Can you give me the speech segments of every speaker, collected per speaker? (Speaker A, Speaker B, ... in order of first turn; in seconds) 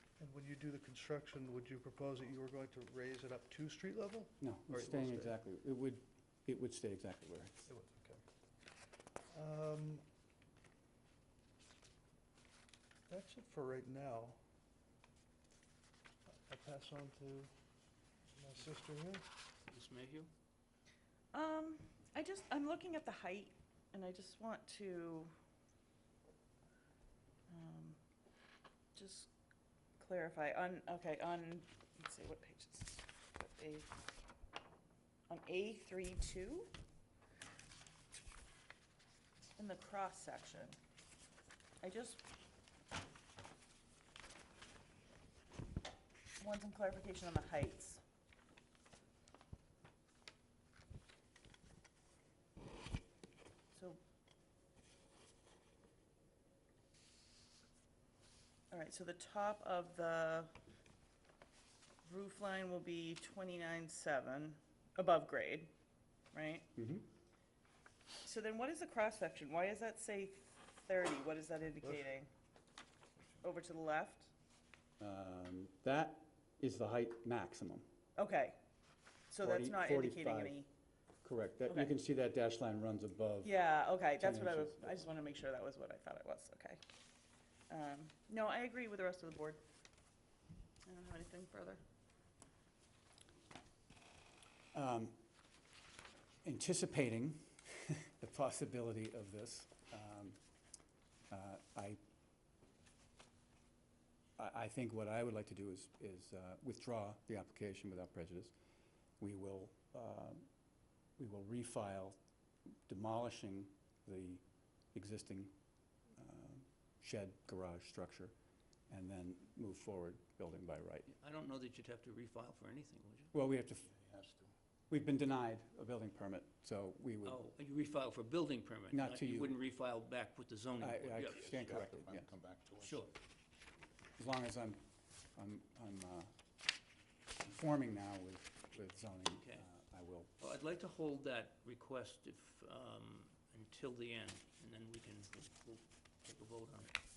Speaker A: 0.2-5.3, 7.7-8.2, 9.3-10.1, 13.1-14.4, 16.4-17.5, 18.4-19.3
Speaker B: 4.4-7.5, 66.8-67.1, 75.0-77.9, 79.4-80.6, 81.2-83.6, 84.2-85.0, 94.7-95.2, 96.4-100.4, 101.3-102.0, 104.4-108.5, 109.2-110.4, 111.2-112.2, 112.9-115.5, 116.2-118.3, 118.9-121.1, 123.3-123.9, 124.9-127.4, 128.9-129.6, 130.8-132.2, 134.2-134.8, 135.3-136.3, 137.4-140.3
Speaker C: 19.7-20.3, 121.2-123.3, 127.2-131.6, 132.8-133.1, 139.3-139.6, 140.4-146.9
Speaker D: 21.3-25.3, 27.5-28.0, 28.9-29.3, 30.0-33.9, 35.3-36.7, 39.6-40.8, 41.8-42.2, 46.4-48.0, 53.7-54.0, 58.7-60.5, 62.0-65.7, 66.3-66.7, 68.2-72.3, 73.4-74.3, 78.2-78.6, 79.3-80.7, 83.4-86.8, 87.7-89.6, 90.9-91.8
Speaker E: 124.0-124.5, 131.5-133.0